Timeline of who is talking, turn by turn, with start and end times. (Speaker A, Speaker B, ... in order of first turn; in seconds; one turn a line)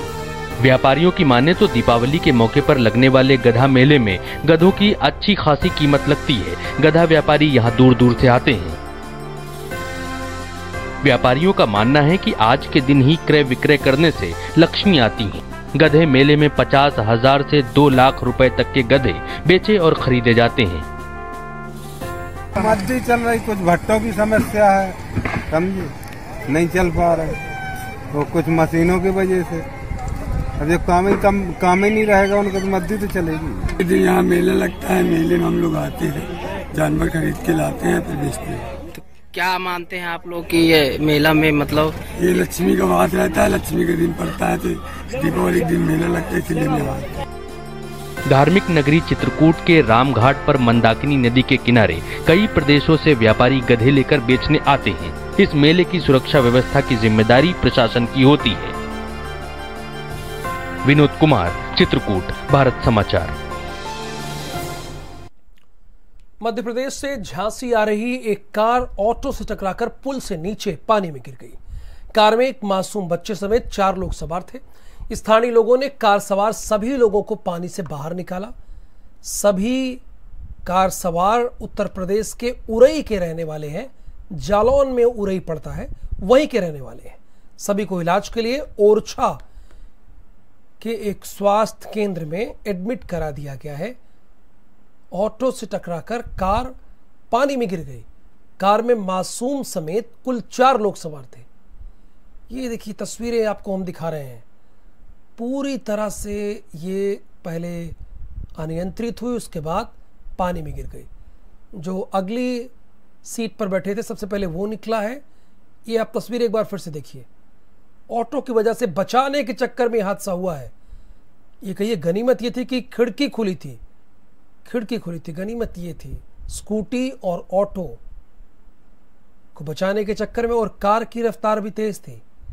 Speaker A: 0.6-8.8
Speaker A: 11.0-20.9
Speaker B: 22.6-25.9
Speaker B: 26.5-27.4
Speaker B: 28.1-29.6
Speaker B: 30.6-33.8
Speaker C: 33.8-38.7
Speaker D: 39.3-42.0
Speaker C: 42.1-47.1
Speaker A: 48.2-58.8
Speaker A: 60.8-63.4
Speaker E: 66.4-71.6
Speaker E: 72.1-78.5
Speaker E: 79.2-80.0
Speaker E: 80.6-89.4
Speaker E: 90.8-94.0
Speaker E: 95.1-96.8
Speaker E: 97.3-98.0
Speaker E: 98.6-101.5
Speaker E: 102.5-104.4
Speaker E: 105.4-108.0
Speaker E: 108.5-111.1
Speaker E: 111.7-112.7
Speaker E: 113.2-115.2
Speaker E: 115.8-117.3
Speaker E: 118.1-120.7
Speaker E: 121.6-123.8
Speaker E: 124.6-128.0
Speaker E: 129.5-132.2